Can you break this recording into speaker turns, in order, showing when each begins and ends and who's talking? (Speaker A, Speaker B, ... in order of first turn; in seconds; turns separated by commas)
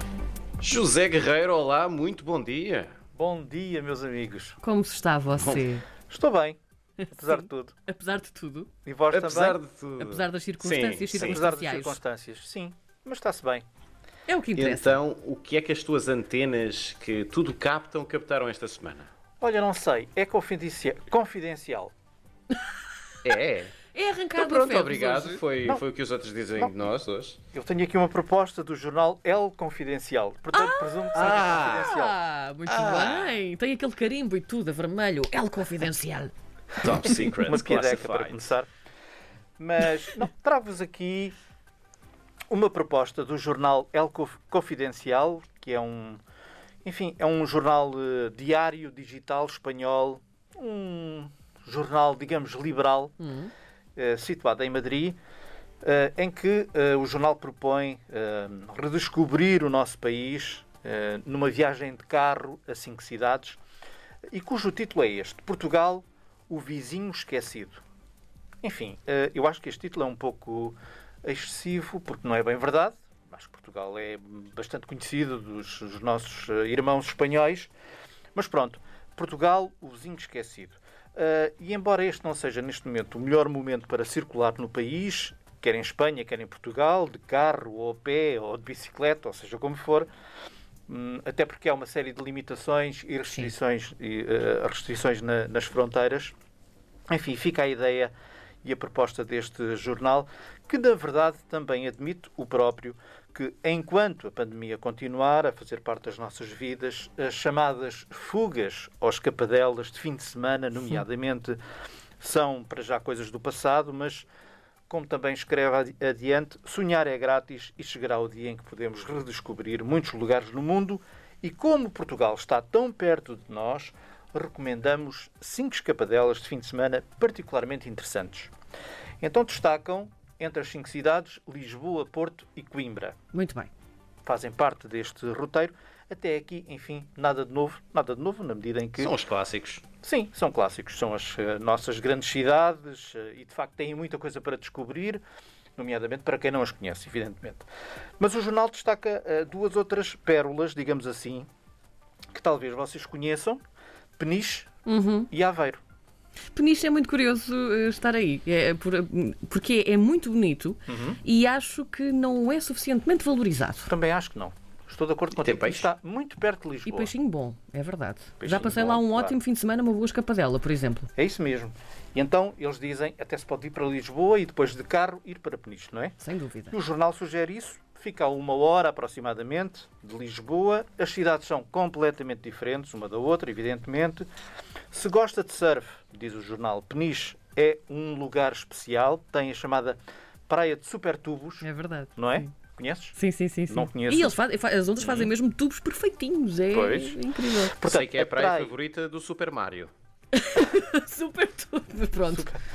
Speaker A: 0.6-2.9, Speaker B: 3.1-4.6, Speaker C: 4.6-5.8, Speaker A: 5.3-5.7, Speaker B: 6.1-6.6, Speaker B: 7.1-7.7, Speaker C: 7.2-8.7, Speaker B: 8.8-9.6, Speaker A: 9.1-11.4, Speaker C: 10.0-12.0, Speaker B: 11.2-13.6, Speaker C: 14.3-15.0, Speaker A: 14.6-19.1, Speaker B: 19.4-21.9, Speaker A: 23.2-23.8, Speaker C: 23.9-25.4, Speaker A: 24.3-27.4, Speaker B: 27.5-32.1, Speaker C: 30.5-36.3, Speaker A: 31.1-31.9, Speaker A: 32.7-33.4, Speaker A: 36.8-38.5, Speaker B: 37.5-38.7, Speaker B: 39.6-41.3, Speaker B: 42.5-46.2, Speaker B: 46.8-53.1, Speaker C: 53.2-53.5, Speaker B: 54.0-55.2, Speaker B: 55.8-63.6, Speaker B: 64.3-67.8, Speaker B: 68.6-77.7, Speaker B: 78.3-90.1, Speaker B: 90.9-96.3, Speaker B: 97.1-98.1, Speaker B: 98.6-111.6, Speaker B: 112.2-114.3, Speaker B: 114.9-128.5, Speaker B: 129.2-133.2, Speaker C: 133.3-133.7, Speaker B: 134.2-139.1, Speaker A: 139.0-139.8, Speaker B: 140.0-145.2, Speaker B: 145.8-147.7, Speaker B: 148.2-151.5, Speaker B: 152.3-153.6, Speaker B: 154.2-154.7, Speaker C: 154.8-155.3, Speaker B: 155.3-155.8, Speaker C: 156.5-163.9, Speaker B: 160.9-161.2, Speaker B: 163.8-167.1, Speaker A: 165.3-165.9, Speaker C: 166.8-171.1, Speaker B: 168.4-169.4, Speaker B: 171.2-176.2, Speaker C: 176.2-176.7, Speaker B: 176.7-184.3, Speaker B: 184.9-193.2, Speaker C: 191.6-192.4, Speaker C: 193.2-197.8, Speaker B: 193.7-194.4, Speaker A: 195.0-195.3, Speaker A: 196.7-197.1, Speaker B: 197.7-198.7, Speaker A: 197.8-199.9, Speaker C: 200.3-202.5, Speaker B: 202.3-202.6